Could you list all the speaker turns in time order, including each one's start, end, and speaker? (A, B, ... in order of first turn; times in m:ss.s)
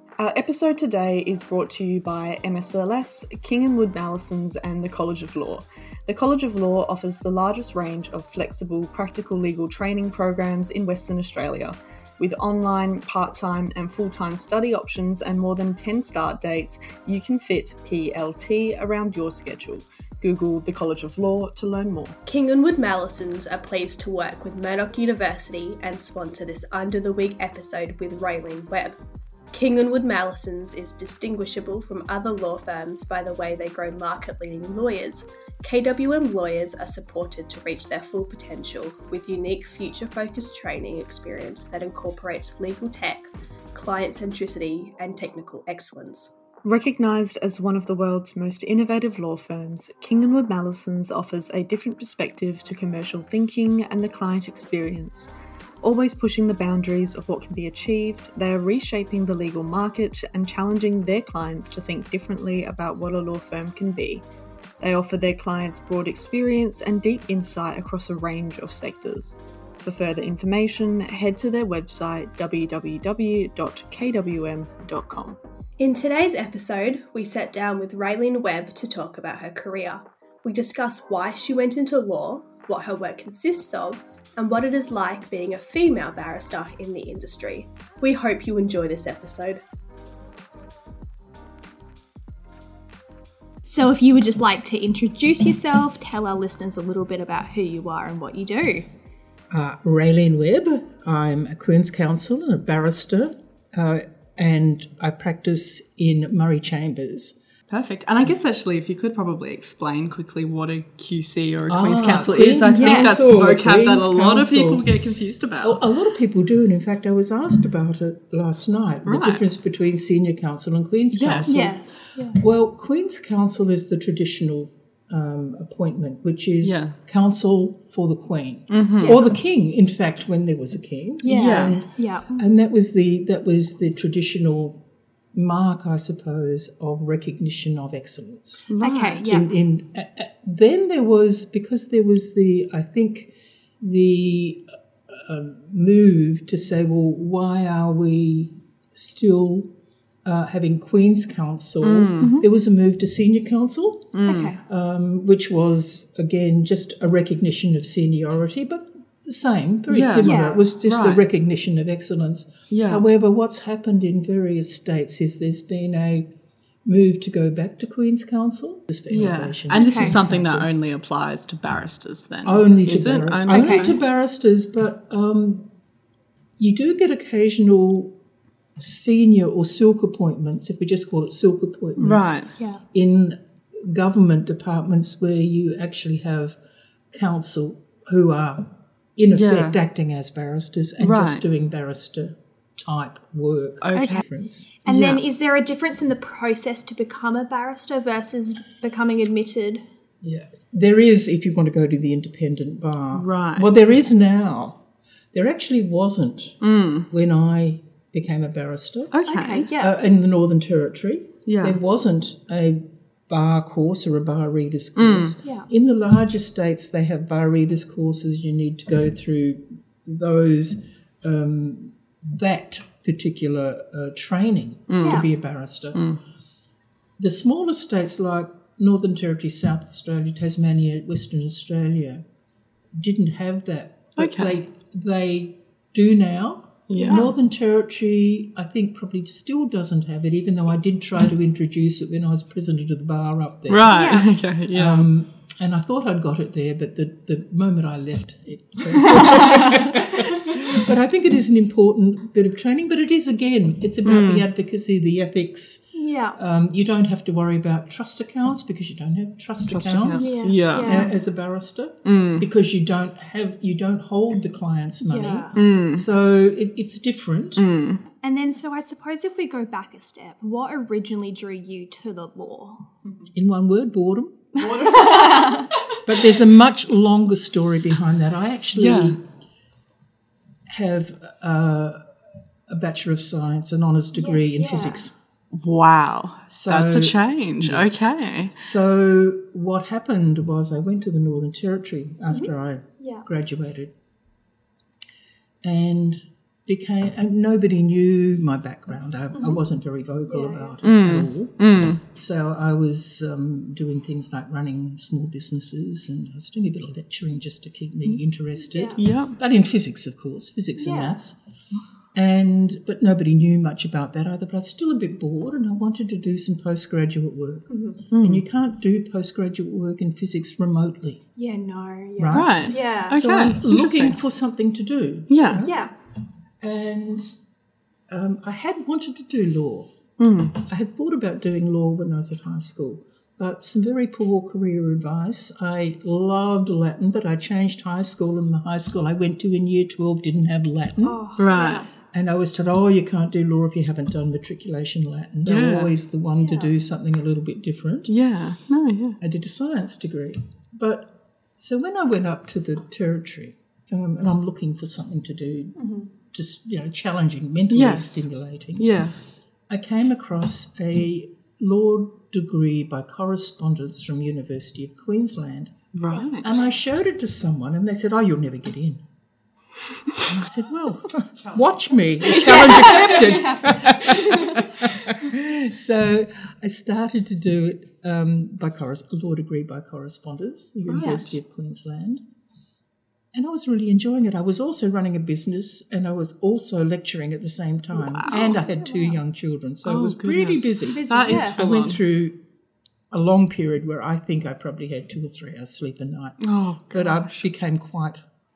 0:00.2-0:22.2 A
0:22.3-0:29.0 B
0:29.5-0:46.3 B
0:46.6-1:04.2 A
1:04.8-1:15.4 A
1:15.8-1:29.6 B
1:33.7-1:38.9 B
1:39.5-1:47.4 C
1:47.7-1:55.8 A
1:51.7-1:54.8 C
1:52.6-1:53.5 B
1:55.6-2:14.8 C
1:59.1-1:59.4 A
2:01.1-2:01.5 A
2:01.5-2:02.4 B
2:06.6-2:07.0 A
2:08.7-2:09.2 A
2:09.0-2:09.3 B
2:11.2-2:12.4 B
2:11.3-2:11.8 A
2:15.3-2:18.7 C
2:18.7-2:19.2 A
2:18.8-2:19.5 B
2:19.2-2:29.7 C
2:30.3-2:46.3 C
2:31.8-2:32.4 A
2:34.1-2:34.6 A
2:34.3-2:34.6 B
2:39.9-2:41.3 A
2:40.2-2:40.6 B
2:42.7-2:43.0 A
2:46.8-2:50.7 C
2:49.1-2:54.0 A
2:49.8-2:50.1 B
2:52.4-2:55.7 C
2:53.5-2:54.0 B
2:56.6-2:58.2 C
2:58.8-3:02.4 C
3:02.0-3:02.5 A
3:02.9-3:06.6 C
3:07.1-3:14.7 C
3:09.3-3:09.8 A
3:11.0-3:11.4 A
3:13.8-3:14.2 A
3:14.8-3:19.8 B
3:14.9-3:15.2 A
3:20.2-3:29.2 C
3:23.1-3:23.7 A
3:26.6-3:27.1 A
3:29.1-3:29.7 A
3:29.3-3:30.0 B
3:29.7-3:46.0 C
3:31.5-3:31.8 A
3:35.0-3:35.4 A
3:44.9-3:45.3 A
3:45.0-3:45.3 B
3:45.9-3:46.2 A
3:47.2-3:52.2 C
3:53.0-4:27.6 C
3:54.2-3:54.6 A
3:56.9-3:57.3 A
3:57.0-3:57.3 B
4:03.7-4:05.1 A
4:03.9-4:04.3 B
4:09.1-4:10.0 B
4:09.3-4:09.7 A
4:14.0-4:14.5 A
4:15.9-4:16.4 B
4:19.7-4:21.1 A
4:20.1-4:21.2 B
4:22.0-4:22.5 A
4:25.0-4:25.5 B
4:25.6-4:26.1 A
4:27.6-4:28.0 A
4:28.2-4:32.9 B
4:33.3-4:34.6 C
4:34.6-4:35.7 A
4:34.7-4:35.7 B
4:36.0-4:39.2 C
4:38.7-4:39.2 A
4:40.7-4:42.0 C
4:42.7-4:45.1 C
4:44.1-4:45.1 B
4:45.6-4:48.6 A
4:46.5-4:53.9 C
4:52.3-4:53.2 B
4:55.6-5:11.4 C
5:00.2-5:00.8 B
5:00.8-5:02.0 A
5:08.7-5:09.0 B
5:09.0-5:09.4 A
5:10.8-5:11.2 B
5:12.1-5:21.2 C
5:17.7-5:18.0 B
5:18.1-5:18.4 A
5:21.4-5:23.2 B
5:22.2-5:25.8 C
5:22.3-5:24.2 A
5:25.3-5:25.7 A
5:25.6-5:25.9 B
5:26.6-5:27.4 C
5:28.1-5:29.9 C
5:30.2-5:30.6 A
5:30.6-5:48.1 C
5:41.0-5:41.9 B
5:41.4-5:41.8 A
5:45.4-5:45.9 A
5:46.4-5:46.7 B
5:48.1-5:49.2 A
5:49.2-5:58.9 C
5:55.8-5:56.1 B
5:57.7-5:58.3 A
5:58.8-5:59.2 A
5:59.7-6:09.0 C
6:06.0-6:06.6 A
6:06.1-6:06.8 B
6:10.2-6:22.2 C
6:12.4-6:13.2 A
6:12.4-6:14.6 B
6:20.9-6:21.3 A
6:23.3-6:32.4 C
6:28.0-6:28.6 A
6:28.3-6:29.2 B
6:29.8-6:32.0 A
6:30.9-6:31.6 B
6:33.1-6:38.2 C
6:36.4-6:37.5 A